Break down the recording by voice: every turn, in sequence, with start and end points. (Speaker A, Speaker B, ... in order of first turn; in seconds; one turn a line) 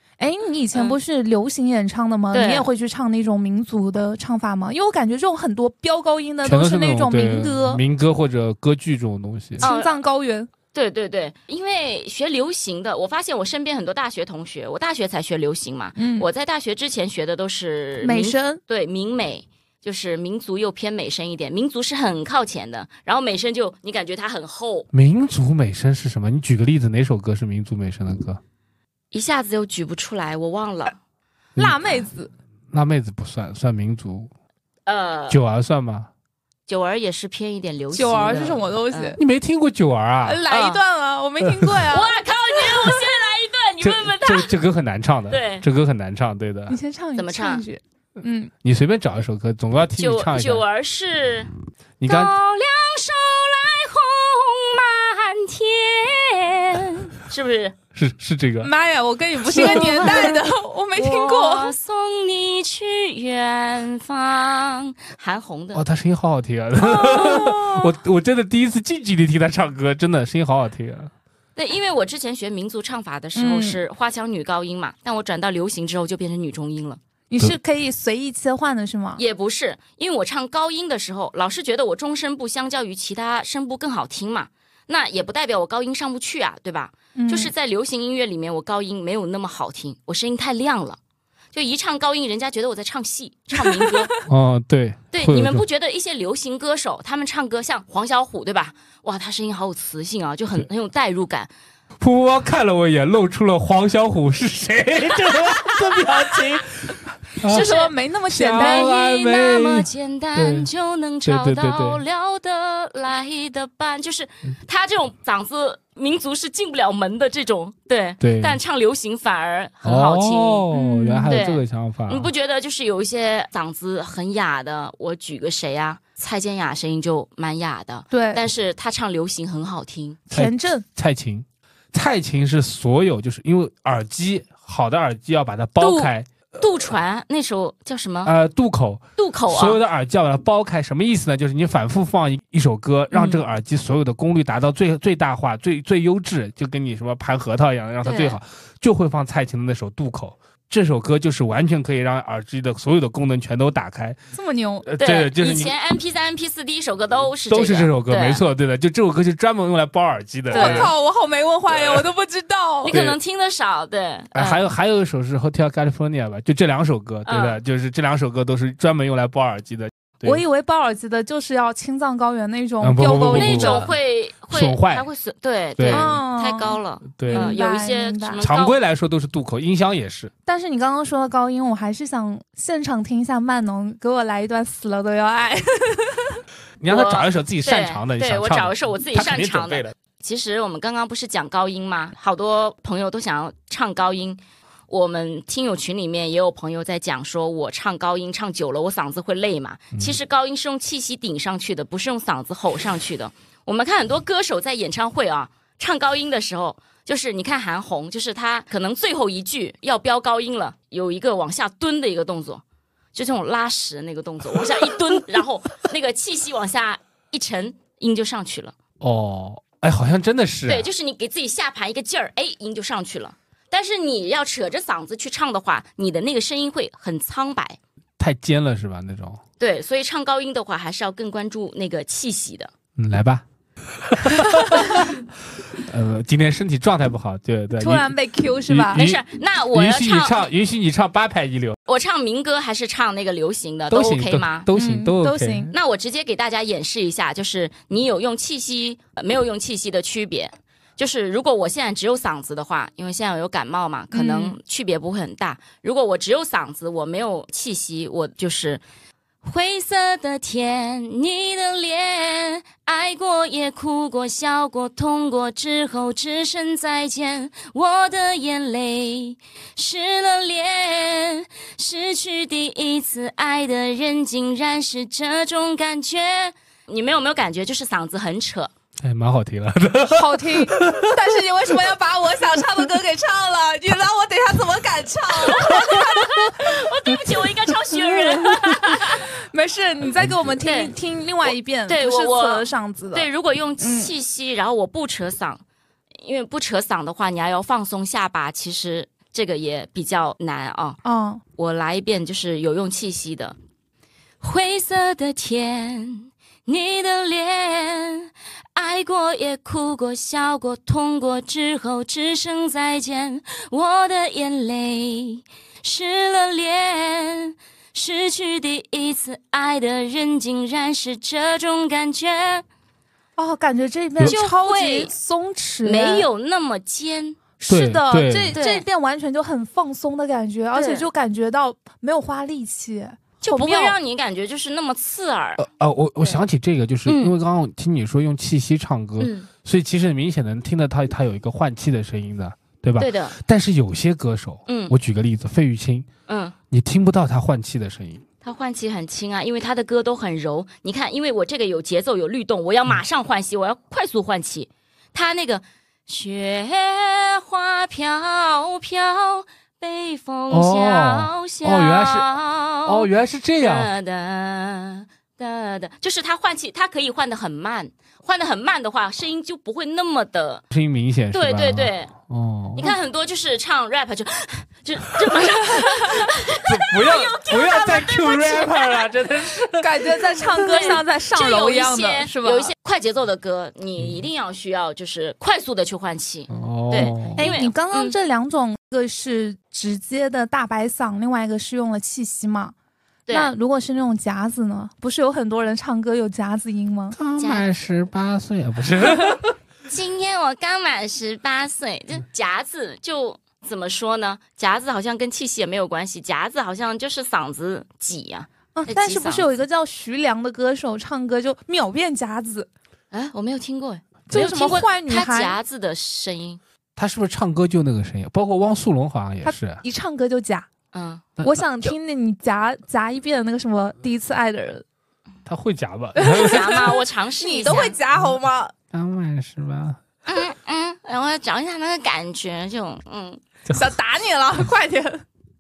Speaker A: 0.2-7.8
Speaker B: 2.3-2.7
Speaker C: 6.4-9.7
Speaker B: 9.6-10.0
Speaker A: 9.6-10.5
Speaker B: 10.7-24.9
Speaker A: 16.0-16.3
Speaker A: 18.0-18.6
Speaker C: 24.9-28.4
Speaker B: 29.1-30.9
Speaker C: 31.6-31.8
Speaker A: 31.6-32.3
Speaker C: 32.7-34.3
Speaker B: 34.9-35.4
Speaker C: 35.3-36.1
Speaker B: 36.7-39.1
Speaker A: 37.9-39.2
Speaker C: 39.2-40.5
Speaker A: 40.2-42.2
Speaker B: 40.5-40.8
Speaker C: 41.5-41.7
Speaker B: 41.9-44.5
Speaker C: 43.8-46.8
Speaker B: 45.3-45.6
Speaker A: 46.7-48.5
Speaker B: 47.2-47.6
Speaker C: 48.6-50.6
Speaker B: 50.0-51.5
Speaker C: 52.0-52.4
Speaker B: 52.0-57.8
Speaker C: 57.9-58.7
Speaker A: 58.6-61.7
Speaker B: 59.5-60.4
Speaker C: 59.5-60.1
Speaker B: 61.0-65.8
Speaker C: 65.7-71.1
Speaker B: 66.8-67.9
Speaker B: 71.6-77.0
Speaker A: 73.3-73.8
Speaker A: 77.3-79.2
Speaker B: 79.2-91.0
Speaker A: 87.2-87.5
Speaker B: 91.5-94.1
Speaker A: 93.6-94.2
Speaker C: 94.3-95.6
Speaker B: 95.1-101.5
Speaker C: 102.0-107.7
Speaker B: 107.5-107.9
Speaker A: 107.5-108.9
Speaker C: 108.3-110.7
Speaker B: 108.5-120.7
Speaker C: 111.2-112.0
Speaker C: 118.2-118.6
Speaker C: 119.8-122.3
Speaker A: 120.7-121.4
Speaker B: 121.3-130.2
Speaker A: 128.1-128.4
Speaker A: 130.3-130.8
Speaker C: 130.3-136.3
Speaker B: 135.8-138.3
Speaker C: 138.2-154.2
Speaker B: 139.2-139.8
Speaker B: 143.1-143.4
Speaker B: 148.0-148.4
Speaker A: 154.3-154.9
Speaker C: 154.8-155.7
Speaker B: 155.0-158.4
Speaker C: 157.5-160.9
Speaker A: 160.5-162.9
Speaker B: 160.5-160.9
Speaker C: 161.7-162.0
Speaker B: 162.8-164.7
Speaker C: 162.9-163.2
Speaker C: 164.3-170.4
Speaker B: 167.3-167.6
Speaker A: 170.2-173.9
Speaker C: 172.8-174.0
Speaker B: 173.3-178.8
Speaker C: 174.5-175.1
Speaker C: 175.8-176.2
Speaker A: 175.9-178.4
Speaker C: 177.2-177.6
Speaker C: 178.4-180.3
Speaker A: 180.5-186.3
Speaker C: 186.8-189.9
Speaker B: 186.9-212.6
Speaker B: 213.1-218.8
Speaker C: 219.0-220.9
Speaker B: 220.7-227.8
Speaker C: 228.2-229.4
Speaker B: 229.6-232.7
Speaker C: 233.0-233.4
Speaker C: 234.0-235.2
Speaker C: 235.8-238.1
Speaker A: 237.8-239.0
Speaker C: 238.7-239.2
Speaker B: 238.9-240.4
Speaker C: 239.7-241.8
Speaker B: 241.9-244.7
Speaker C: 243.9-245.7
Speaker A: 244.7-245.7
Speaker B: 245.7-258.8
Speaker A: 254.1-254.6
Speaker B: 259.4-278.7
Speaker C: 279.0-281.2
Speaker A: 280.1-286.4
Speaker B: 285.4-289.3
Speaker A: 289.1-293.3
Speaker C: 290.2-290.6
Speaker B: 290.6-290.9
Speaker B: 291.9-295.6
Speaker A: 293.8-294.1
Speaker B: 296.2-301.0
Speaker A: 301.0-301.4
Speaker B: 301.6-303.6
Speaker B: 304.4-322.6
Speaker A: 323.4-326.3
Speaker B: 324.2-325.1
Speaker B: 325.8-327.4
Speaker A: 327.6-334.0
Speaker C: 327.7-328.6
Speaker B: 328.5-328.9
Speaker B: 330.7-331.1
Speaker B: 333.4-335.6
Speaker C: 335.6-346.1
Speaker B: 337.1-337.3
Speaker B: 339.2-339.5
Speaker B: 343.0-343.4
Speaker B: 344.7-344.9
Speaker B: 346.3-346.6
Speaker C: 346.7-348.2
Speaker B: 348.4-363.1
Speaker C: 360.5-362.3
Speaker C: 362.9-363.9
Speaker B: 363.6-370.6
Speaker C: 370.7-372.9
Speaker B: 371.3-372.1
Speaker B: 372.8-379.1
Speaker C: 376.6-379.9
Speaker A: 379.8-382.7
Speaker B: 380.6-388.2
Speaker C: 384.0-384.2
Speaker C: 386.5-387.6
Speaker A: 387.4-392.8
Speaker A: 393.3-397.2
Speaker C: 397.1-399.5
Speaker B: 397.4-397.7
Speaker B: 399.9-409.5
Speaker A: 408.8-412.7
Speaker B: 413.1-416.6
Speaker A: 414.3-415.6
Speaker C: 417.0-419.8
Speaker A: 419.4-420.7
Speaker B: 420.9-421.2
Speaker C: 421.4-421.9
Speaker A: 421.4-424.9
Speaker C: 425.5-426.8
Speaker A: 426.2-428.7
Speaker B: 426.4-428.0
Speaker C: 428.9-430.0
Speaker B: 430.3-433.4
Speaker A: 433.7-435.2